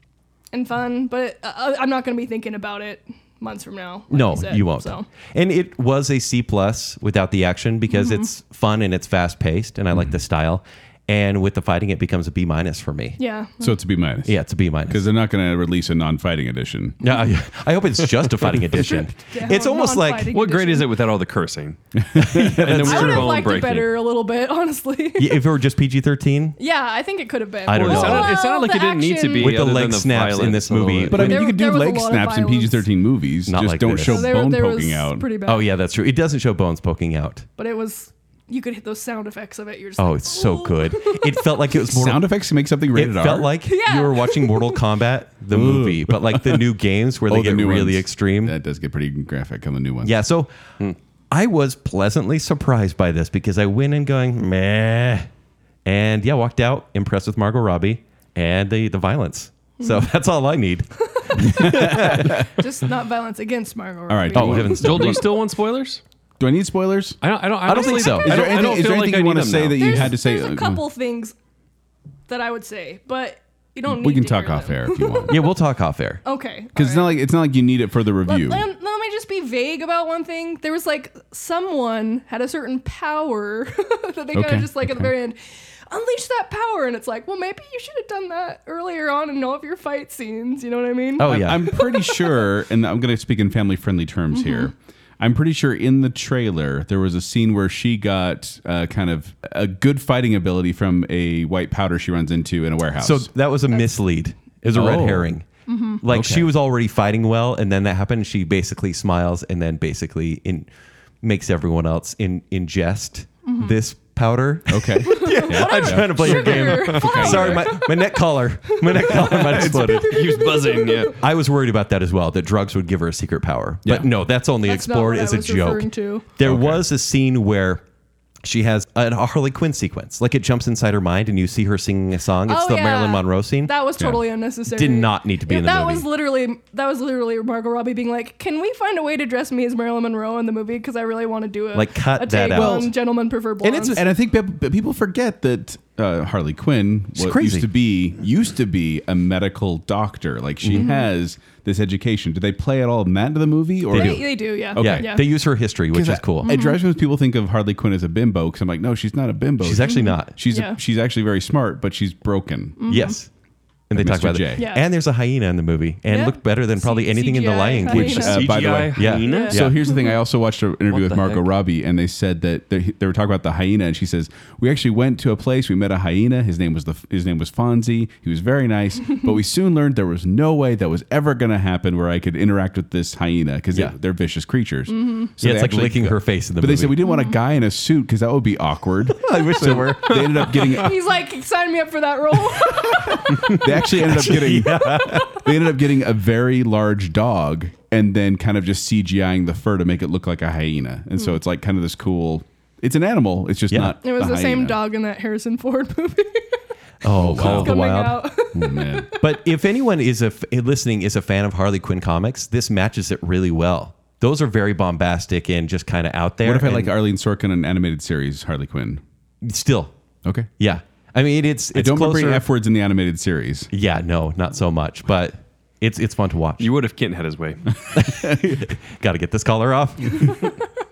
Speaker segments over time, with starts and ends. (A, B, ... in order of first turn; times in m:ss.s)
0:00.5-0:05.1 A
0:04.1-0:13.2 B
0:07.9-0:08.3 A
0:13.2-0:13.8 A
0:13.6-0:17.0 C
0:14.2-0:15.1 B
0:17.0-0:20.3 B
0:18.7-0:20.9 A
0:20.3-0:23.9 D
0:21.9-0:23.4 C
0:22.3-0:23.2 B
0:22.8-0:25.4 A
0:25.2-0:26.6 B
0:26.6-0:29.6 A
0:27.6-0:28.4 B
0:27.7-0:31.4 D
0:29.4-0:31.5 B
0:31.1-0:35.3 C
0:31.2-0:32.9 A
0:33.4-0:34.4 B
0:34.0-0:35.7 A
0:35.4-0:37.4 B
0:37.6-0:41.4 A
0:40.0-0:42.2 B
0:41.9-0:43.5 C
0:42.9-0:48.5 B
0:43.6-0:44.8 A
0:45.5-0:46.7 C
0:47.3-0:50.1 C
0:50.0-0:55.3 B
0:55.8-1:02.4 B
0:59.8-1:00.1 A
1:01.4-1:02.4 C
1:01.7-1:04.8 A
1:04.1-1:05.4 C
1:04.3-1:05.2 B
1:04.8-1:06.0 D
1:06.4-1:07.2 C
1:07.2-1:10.2 D
1:07.6-1:08.4 B
1:07.7-1:08.9 A
1:08.0-1:10.8 C
1:09.7-1:11.3 A
1:12.3-1:15.4 A
1:13.8-1:15.4 C
1:15.3-1:16.2 B
1:16.2-1:17.2 A
1:16.8-1:18.7 C
1:18.2-1:25.4 A
1:24.3-1:25.1 C
1:25.9-1:32.4 A
1:31.2-1:31.6 B
1:31.2-1:43.3 C
1:34.3-1:34.7 A
1:43.0-1:45.5 B
1:44.7-1:45.3 C
1:45.7-1:46.0 A
1:46.0-1:50.7 B
1:46.1-1:46.5 C
1:51.2-2:00.2 B
1:53.4-1:53.7 A
1:54.7-1:57.7 C
1:55.0-2:01.1 A
1:56.6-1:57.2 D
1:59.0-2:00.0 C
1:59.5-2:01.1 D
2:01.1-2:07.8 B
2:04.6-2:06.2 A
2:06.4-2:06.9 C
2:08.4-2:13.7 B
2:12.5-2:24.0 A
2:14.7-2:16.1 B
2:21.7-2:22.9 B
2:22.5-2:22.9 C
2:23.6-2:24.0 B
2:23.9-2:35.3 C
2:27.2-2:27.7 B
2:30.6-2:30.9 B
2:30.7-2:31.1 A
2:33.9-2:36.5 B
2:33.9-2:35.2 A
2:35.9-2:43.1 C
2:36.4-2:36.8 A
2:39.6-2:40.3 B
2:39.8-2:40.8 A
2:42.8-2:43.2 A
2:42.9-2:43.3 B
2:43.9-2:49.8 B
2:43.9-2:44.7 C
2:44.6-2:44.8 A
2:46.1-2:48.5 A
2:47.8-3:11.0 C
2:48.2-2:49.6 D
2:49.2-2:50.1 A
2:50.9-2:51.5 D
3:04.9-3:05.3 A
3:05.4-3:07.0 B
3:07.0-3:07.4 A
3:09.2-3:10.4 B
3:10.1-3:10.8 D
3:10.7-3:13.4 A
3:13.1-3:24.8 C
3:13.9-3:15.5 B
3:23.7-3:24.0 B
3:24.0-3:26.5 A
3:27.0-3:28.2 B
3:27.2-3:27.8 C
3:27.3-3:29.1 A
3:28.5-3:29.1 C
3:29.2-3:36.9 B
3:36.4-3:39.0 C
3:39.4-3:39.9 B
3:40.6-3:42.4 B
3:41.7-3:43.7 C
3:43.7-3:46.7 B
3:46.6-3:47.8 D
3:47.9-3:50.5 B